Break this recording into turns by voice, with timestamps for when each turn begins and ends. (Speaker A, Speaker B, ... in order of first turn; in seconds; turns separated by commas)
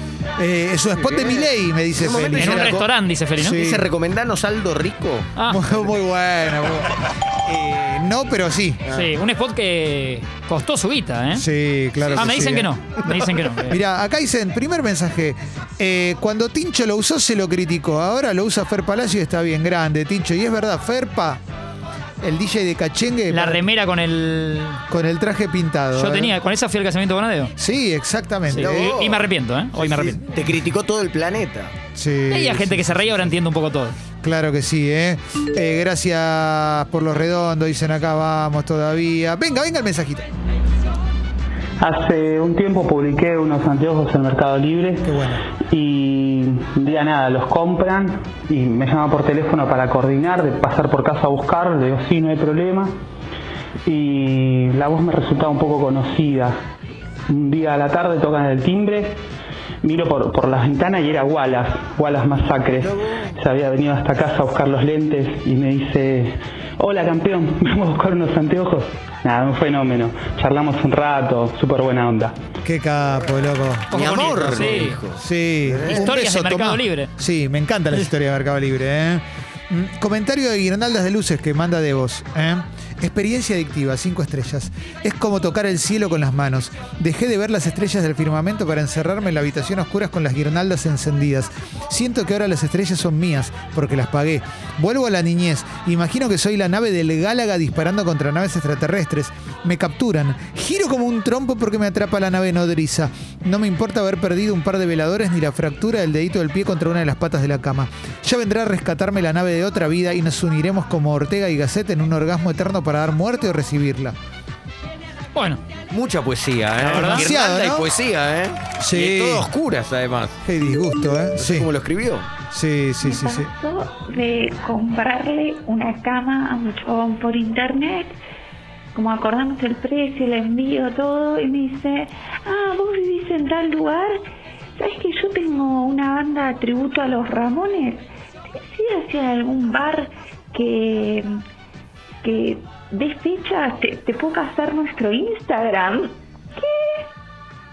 Speaker A: 0.4-2.8, Speaker B: 0.9-2.9, Speaker C: 2.4-3.5, Speaker A: 3.4-3.9, Speaker B: 3.5-5.3, Speaker C: 5.3-5.6, Speaker A: 5.5-8.8, Speaker B: 8.8-9.1, Speaker C: 8.9-11.5, Speaker A: 11.3-12.7, Speaker C: 12.2-13.8, Speaker A: 13.7-21.4, Speaker A: 22.2-23.6, Speaker C: 23.3-24.8, Speaker A: 24.9-26.4, Speaker C: 25.9-27.5, Speaker A: 27.6-28.9, Speaker C: 28.5-30.2, Speaker B: 28.5-31.7, Speaker A: 31.9-33.3, Speaker C: 32.3-34.0, Speaker A: 34.2-40.3, Speaker D: 41.8-45.1, Speaker A: 45.0-45.4, Speaker D: 45.7-52.9, Speaker D: 53.9-56.5, Speaker D: 57.3-59.2, Speaker D: 59.8-72.3, Speaker A: 72.6-114.2, Speaker C: 73.9-75.0, Speaker B: 73.9-76.1, Speaker C: 76.0-77.1, Speaker C: 115.3-115.6, Speaker B: 115.9-120.4, Speaker C: 116.8-117.2, Speaker A: 117.0-117.9, Speaker A: 118.8-119.5, Speaker A: 120.4-121.7, Speaker B: 121.3-122.3, Speaker A: 122.5-123.5, Speaker E: 123.0-128.1, Speaker E: 128.9-134.2, Speaker E: 134.8-141.3, Speaker E: 142.2-147.1